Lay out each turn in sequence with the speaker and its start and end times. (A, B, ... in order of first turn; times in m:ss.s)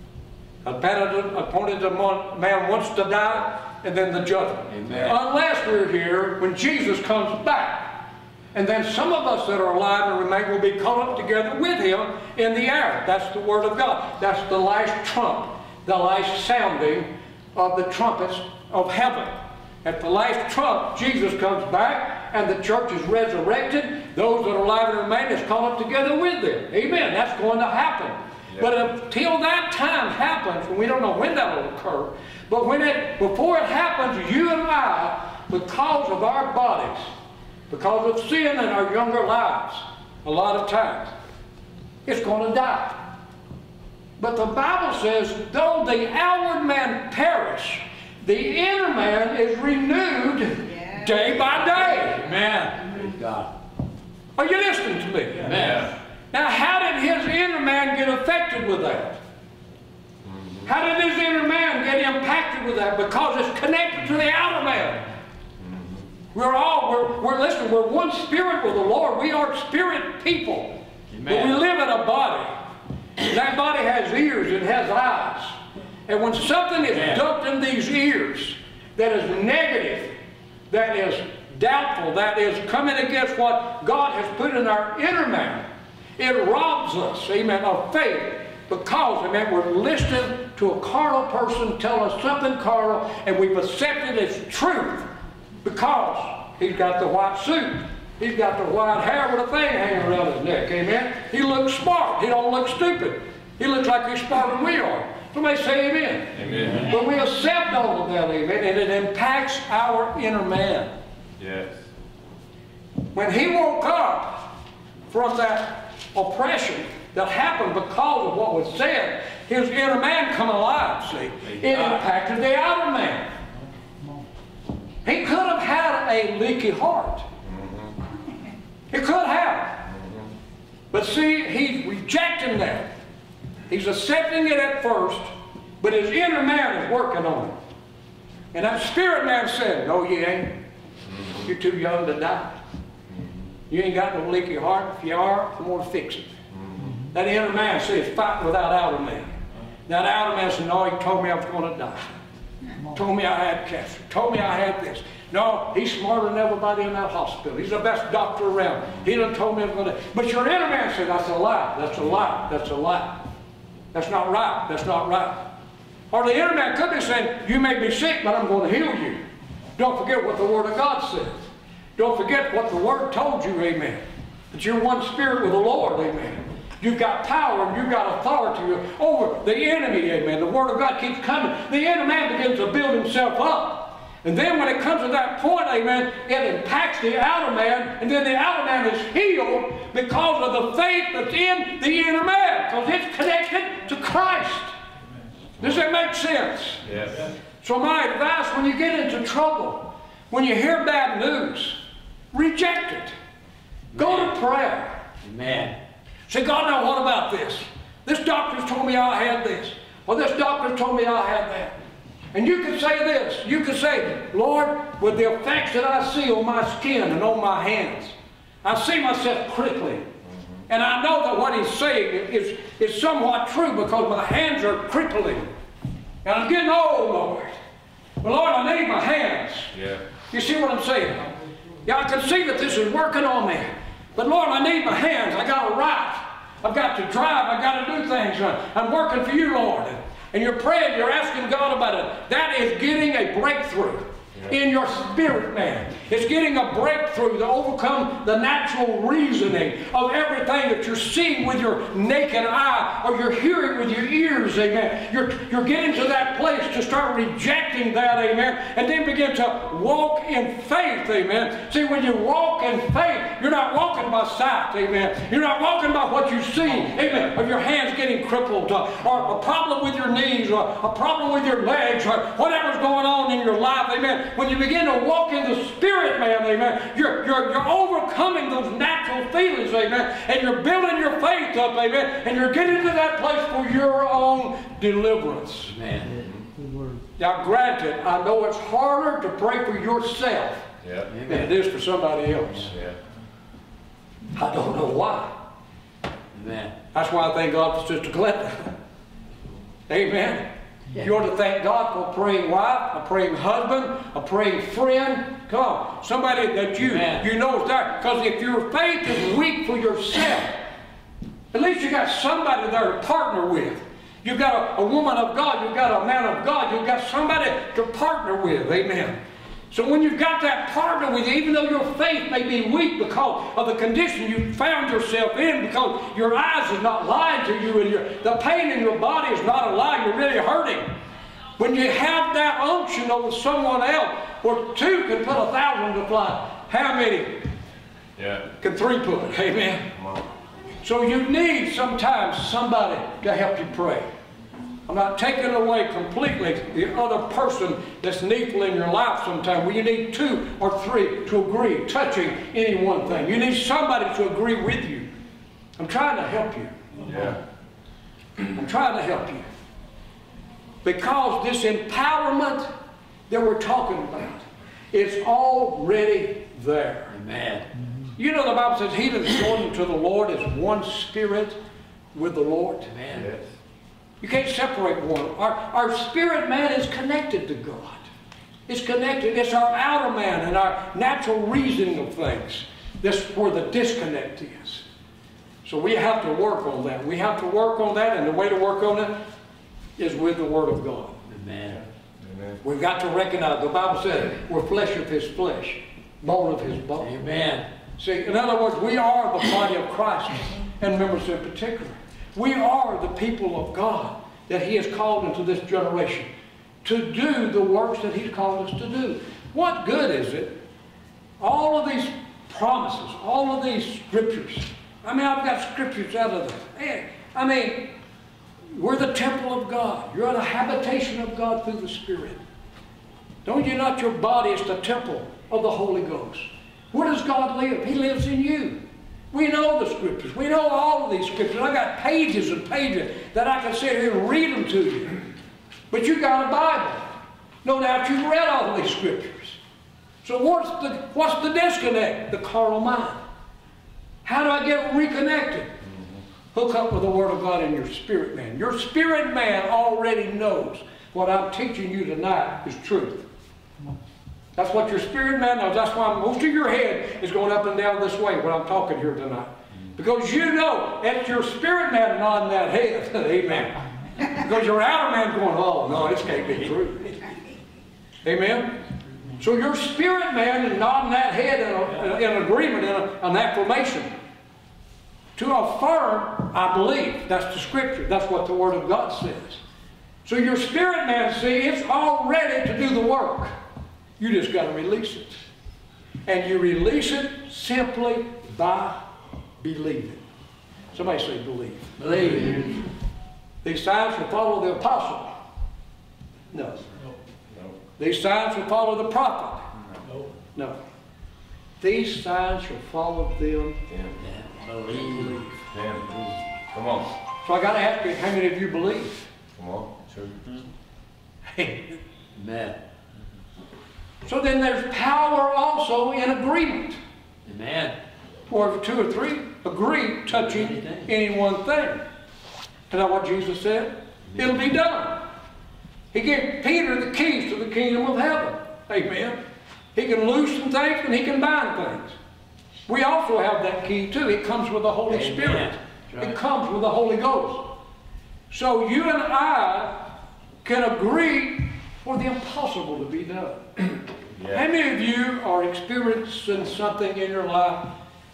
0:00.6-0:37.1 A
0:04.7-0:05.2 B
0:37.7-0:41.1 A
0:42.0-0:43.1 A
0:44.2-0:52.2 A
0:51.9-0:53.5 B
0:54.4-0:55.6 A
0:55.4-0:55.9 B
0:55.5-0:55.9 C
0:56.3-0:59.2 A
1:00.2-1:00.7 C
1:00.6-1:05.0 A
1:05.6-1:06.0 C
1:06.3-1:12.5 A
1:11.1-1:11.6 B
1:13.2-1:20.2 A
1:16.9-1:17.2 B
1:20.7-1:25.7 A
1:26.2-1:35.1 A
1:35.6-1:50.9 A
1:46.3-1:46.9 C
1:51.4-1:51.8 C
1:53.1-1:54.5 A
1:55.1-2:03.3 A
2:01.5-2:02.0 B
2:05.0-2:07.2 A
2:07.4-2:07.9 C
2:08.9-2:09.8 A
2:09.9-2:10.3 C
2:10.9-2:12.9 A
2:13.7-2:17.6 A
2:18.5-2:20.6 A
2:21.3-2:22.6 A
2:23.7-2:26.3 A
2:26.5-2:26.9 C
2:27.1-2:29.4 A
2:29.9-2:32.2 A
2:32.8-2:43.3 A
2:43.9-2:45.4 A
2:46.1-2:49.2 A
2:49.8-3:14.7 A
3:15.6-3:16.8 A
3:16.8-3:17.2 C
3:17.6-3:21.8 A
3:22.3-3:23.1 A
3:23.9-3:25.0 A
3:24.0-3:24.3 B
3:25.2-3:25.8 B
3:26.3-3:31.8 A
3:32.3-3:40.1 A
3:40.7-3:45.5 A
3:46.2-3:47.6 A
3:48.2-3:49.7 A
3:49.7-3:50.0 C
3:50.3-3:51.3 A
3:51.8-4:45.8 A
4:45.7-4:46.2 B
4:47.2-4:50.7 A
4:50.8-4:51.1 C
4:51.1-4:51.5 B
4:51.3-4:52.7 A
4:52.7-4:53.0 C
4:54.4-4:55.4 A
4:56.3-4:56.7 B
4:56.9-4:58.8 A
4:59.9-5:10.6 A
5:06.8-5:07.2 B
5:11.5-5:19.2 A
5:19.7-5:30.9 A
5:31.6-5:37.4 A
5:38.2-5:38.5 C
5:38.6-5:39.9 A
5:40.0-5:40.2 C
5:40.8-5:44.1 A
5:44.9-5:55.1 A
5:55.8-5:56.7 A
5:57.0-5:57.4 C
5:58.5-5:59.5 A
6:00.8-6:02.7 A
6:03.3-6:07.1 A
6:07.1-6:07.7 B
6:08.2-6:11.6 A
6:12.1-6:12.9 A
6:12.9-6:13.3 B
6:13.1-6:13.4 C
6:14.2-6:18.1 A
6:18.7-6:24.8 A
6:25.6-6:29.2 A
6:30.0-6:31.2 A
6:31.3-6:31.8 B
6:32.2-6:32.6 C
6:32.6-6:37.1 A
6:37.0-6:37.7 B
6:38.0-6:46.3 A
6:46.8-6:50.6 A
6:51.4-6:57.9 A
6:58.7-7:02.4 A
7:03.4-7:08.8 A
7:09.3-7:15.2 A
7:15.9-7:17.0 A
7:17.6-7:19.6 A
7:20.2-7:23.2 A
7:24.2-7:25.7 A
7:25.9-7:26.1 C
7:26.5-7:33.3 A
7:34.6-7:47.2 A
7:48.2-7:48.8 A
7:49.4-7:54.1 A
7:55.4-7:59.6 A
8:00.2-8:03.5 A
8:04.2-8:05.4 A
8:06.3-8:09.0 A
8:09.6-8:10.2 A
8:10.9-8:12.0 A
8:12.0-8:12.9 B
8:13.6-8:15.3 A
8:16.5-8:16.8 A
8:18.0-8:19.6 A
8:21.8-8:23.8 A
8:23.9-8:24.2 C
8:24.2-8:25.5 B
8:25.7-8:26.1 C
8:26.7-8:27.1 C
8:27.4-8:29.3 A
8:29.6-8:30.4 C
8:31.5-8:32.0 A
8:32.4-8:32.8 B
8:34.2-8:37.0 A
8:37.4-8:38.0 B
8:38.5-8:42.0 A
8:40.5-8:41.0 B
8:42.9-8:45.3 A
8:46.1-8:49.4 A
8:49.9-8:52.2 A
8:52.9-8:57.7 A
8:55.1-8:56.3 B
8:58.5-9:00.1 A
9:00.6-9:07.9 A
9:04.4-9:04.6 C